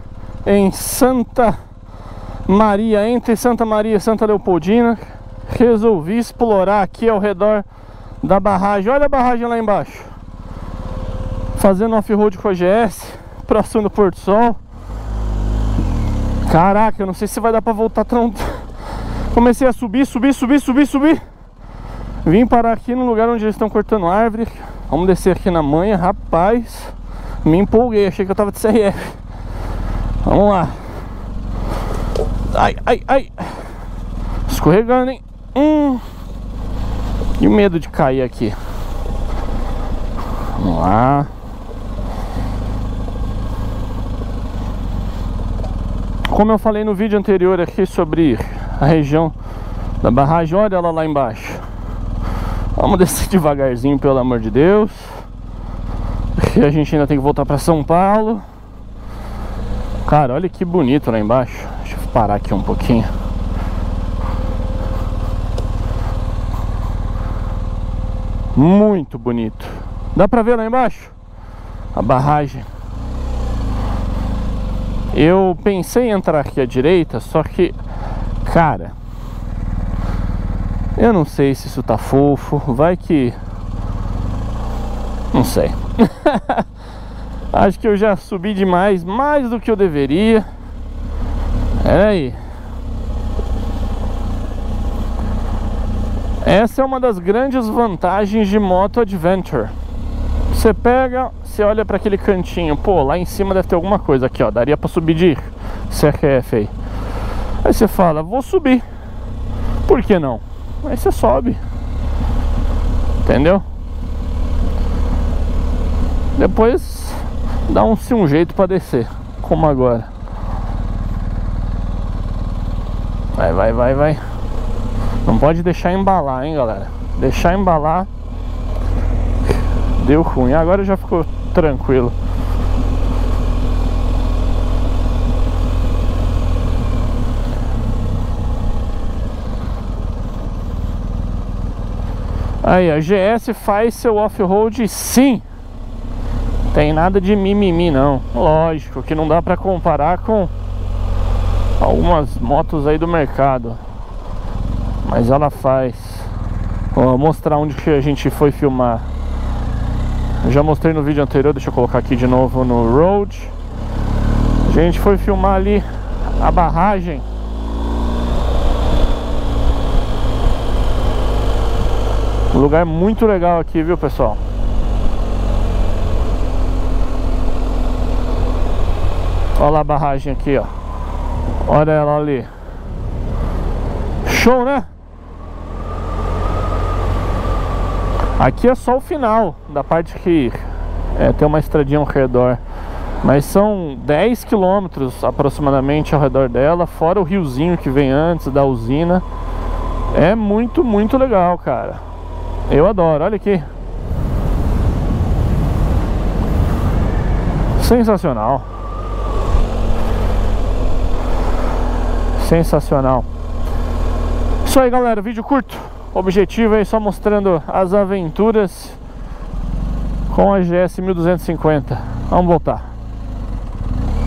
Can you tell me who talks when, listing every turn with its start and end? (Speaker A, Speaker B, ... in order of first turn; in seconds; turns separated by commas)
Speaker A: 0.4-1.6, Speaker A: 2.5-7.7, Speaker A: 8.2-10.1, Speaker A: 11.5-14.6, Speaker A: 16.4-18.6, Speaker A: 19.3-21.2, Speaker A: 22.2-29.2, Speaker A: 30.2-30.9, Speaker A: 32.5-33.7, Speaker A: 34.5-36.0, Speaker A: 37.4-38.6, Speaker A: 40.5-41.3, Speaker A: 46.3-49.3, Speaker A: 50.0-51.6, Speaker A: 52.8-55.2, Speaker A: 56.3-58.4, Speaker A: 60.0-63.1, Speaker A: 68.5-71.1, Speaker A: 71.9-72.7, Speaker A: 75.1-77.8, Speaker A: 78.4-79.0, Speaker A: 81.0-83.4, Speaker A: 85.3-86.7, Speaker A: 87.5-90.5, Speaker A: 91.8-92.4, Speaker A: 96.4-99.7, Speaker A: 100.5-106.7, Speaker A: 107.6-108.8, Speaker A: 109.8-111.6, Speaker A: 113.2-113.6, Speaker A: 116.4-120.1, Speaker A: 123.3-124.2, Speaker A: 125.2-128.1, Speaker A: 129.9-132.2, Speaker A: 142.6-145.4, Speaker A: 146.7-150.5, Speaker A: 151.8-153.8, Speaker A: 155.0-156.3, Speaker A: 156.9-159.1, Speaker A: 160.4-163.5, Speaker A: 164.7-167.2, Speaker A: 172.5-174.4, Speaker A: 179.6-180.7, Speaker A: 181.6-182.5, Speaker A: 184.2-184.9, Speaker A: 188.4-192.6, Speaker A: 193.2-199.2, Speaker A: 200.1-202.0, Speaker A: 202.7-203.7, Speaker A: 207.8-208.7, Speaker A: 212.3-213.2, Speaker A: 214.6-219.0, Speaker A: 220.3-222.9